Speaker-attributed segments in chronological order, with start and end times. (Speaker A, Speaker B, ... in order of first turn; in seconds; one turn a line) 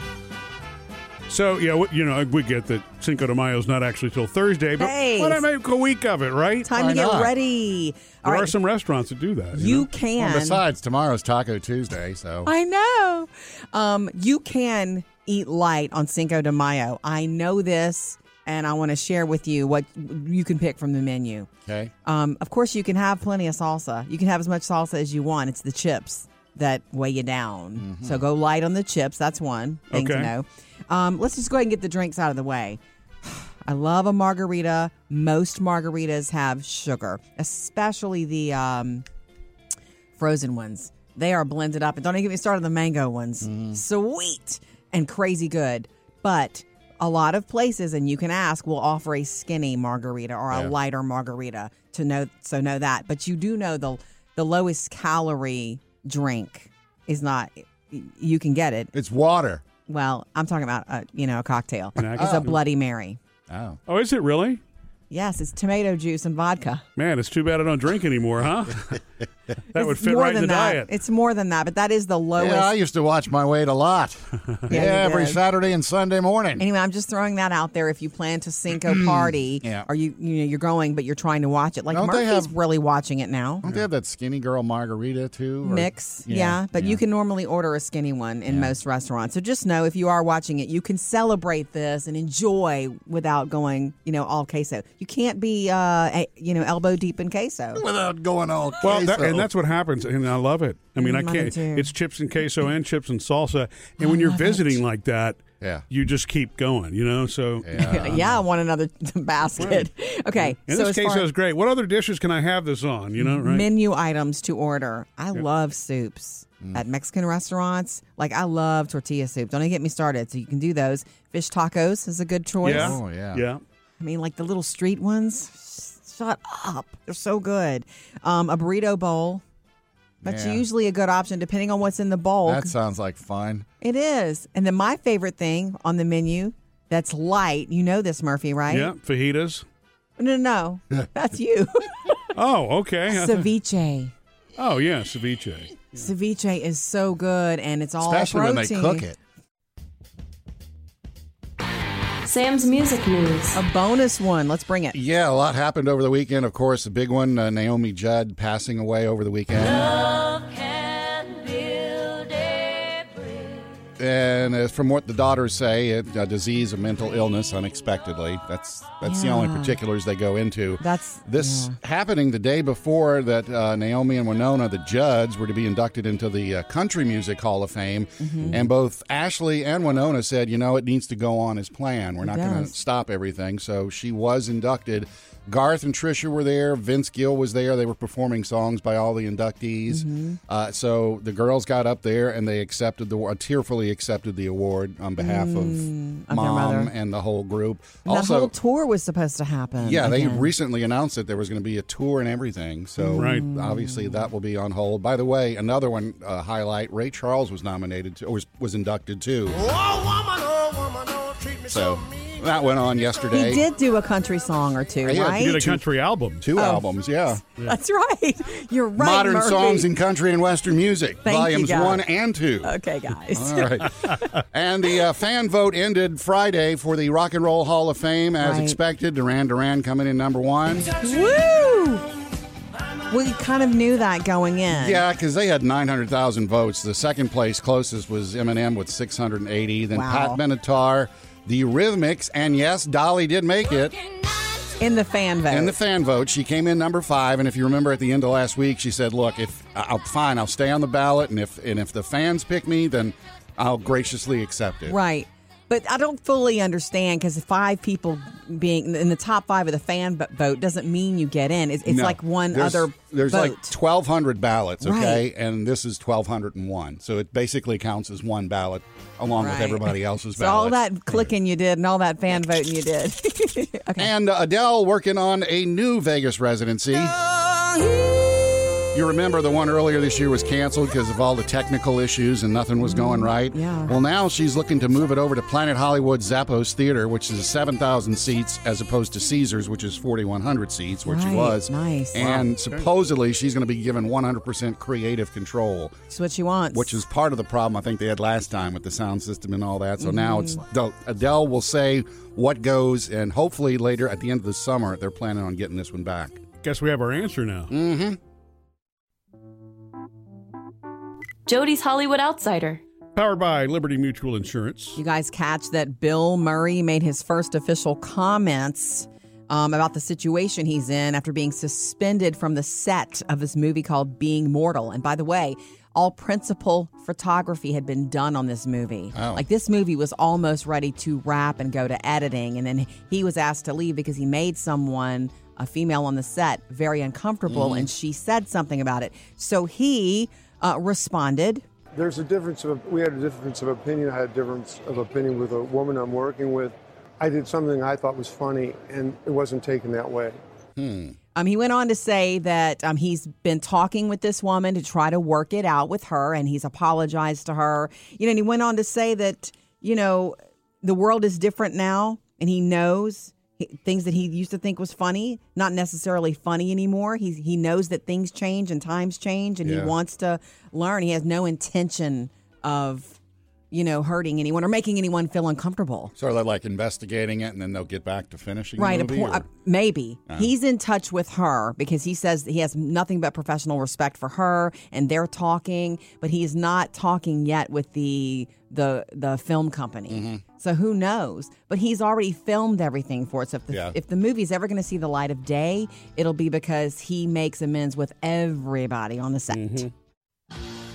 Speaker A: 1.3-6.7
Speaker B: 4.8-5.4
Speaker B: 6.6-8.5
Speaker C: 6.7-7.3
Speaker A: 8.2-9.9
Speaker B: 9.5-10.6
Speaker C: 10.2-12.5
Speaker B: 12.4-21.5
Speaker C: 21.6-21.9
Speaker B: 22.0-39.0
Speaker C: 27.8-28.2
Speaker A: 29.9-30.3
Speaker B: 40.2-58.9
Speaker C: 43.4-43.8
Speaker C: 58.9-59.6
Speaker B: 59.9-63.2
Speaker A: 62.0-62.6
Speaker C: 62.2-62.5
Speaker C: 63.5-63.8
Speaker A: 63.9-64.6
Speaker B: 65.1-66.8
Speaker A: 67.0-69.0
Speaker A: 69.7-70.9
Speaker B: 69.7-72.7
Speaker C: 72.4-76.6
Speaker B: 74.7-75.4
Speaker B: 76.6-83.7
Speaker C: 78.8-79.9
Speaker C: 81.9-82.5
Speaker C: 83.6-87.0
Speaker B: 85.6-97.8
Speaker C: 88.5-88.7
Speaker C: 97.7-99.5
Speaker A: 98.8-108.3
Speaker B: 101.0-101.9
Speaker B: 104.0-104.8
Speaker C: 105.6-105.8
Speaker C: 107.6-108.3
Speaker B: 107.7-111.3
Speaker A: 109.6-109.9
Speaker A: 110.7-113.7
Speaker B: 113.2-123.0
Speaker A: 122.6-123.6
Speaker C: 122.7-123.4
Speaker B: 124.0-129.4
Speaker C: 130.2-130.6
Speaker B: 130.2-132.7
Speaker C: 132.4-133.7
Speaker B: 133.8-138.9
Speaker A: 138.7-139.6
Speaker B: 140.2-142.2
Speaker A: 142.3-143.5
Speaker B: 143.1-144.1
Speaker A: 144.6-146.1
Speaker B: 146.0-149.0
Speaker C: 148.0-149.2
Speaker D: 152.2-153.6
Speaker B: 153.5-154.9
Speaker C: 154.9-160.1
Speaker D: 161.3-162.2
Speaker C: 164.0-198.5
Speaker B: 169.0-169.8
Speaker B: 170.8-171.7
Speaker B: 178.2-178.7
Speaker B: 182.2-182.7
Speaker B: 189.9-190.4
Speaker B: 195.2-196.9
Speaker B: 198.1-200.5
Speaker C: 199.8-209.7
Speaker B: 203.0-204.2
Speaker A: 203.2-203.5
Speaker E: 209.6-212.3
Speaker C: 211.7-213.6
Speaker B: 213.3-215.6
Speaker C: 215.0-215.8
Speaker A: 215.3-216.5
Speaker C: 216.4-217.4
Speaker B: 216.5-216.9
Speaker B: 217.6-219.9
Speaker C: 219.0-222.7
Speaker B: 221.2-222.0
Speaker B: 222.6-224.2
Speaker C: 223.3-230.9
Speaker B: 228.4-228.8
Speaker B: 231.0-232.1
Speaker B: 233.1-235.0
Speaker C: 234.7-244.0
Speaker B: 239.9-240.4
Speaker B: 244.8-245.8
Speaker C: 245.5-255.0
Speaker B: 254.9-263.7
Speaker C: 261.8-271.3
Speaker B: 264.8-265.2
Speaker B: 269.4-274.1
Speaker C: 274.0-277.2
Speaker B: 277.3-278.1
Speaker C: 278.9-295.9
Speaker B: 282.8-284.0
Speaker B: 291.0-292.5
Speaker B: 296.1-297.0
Speaker C: 296.7-306.4
Speaker B: 300.0-300.6
Speaker A: 306.6-307.7
Speaker C: 307.7-308.2
Speaker D: 311.4-312.8
Speaker A: 313.1-315.0
Speaker B: 314.9-341.6
Speaker C: 329.1-329.4
Speaker C: 337.5-337.9
Speaker F: 341.9-350.4
Speaker C: 350.8-351.1
Speaker B: 351.3-373.2
Speaker C: 369.6-369.9
Speaker B: 373.7-376.1
Speaker C: 376.1-379.4
Speaker B: 378.8-399.8
Speaker C: 390.1-390.4
Speaker C: 393.7-393.9
Speaker A: 399.5-399.9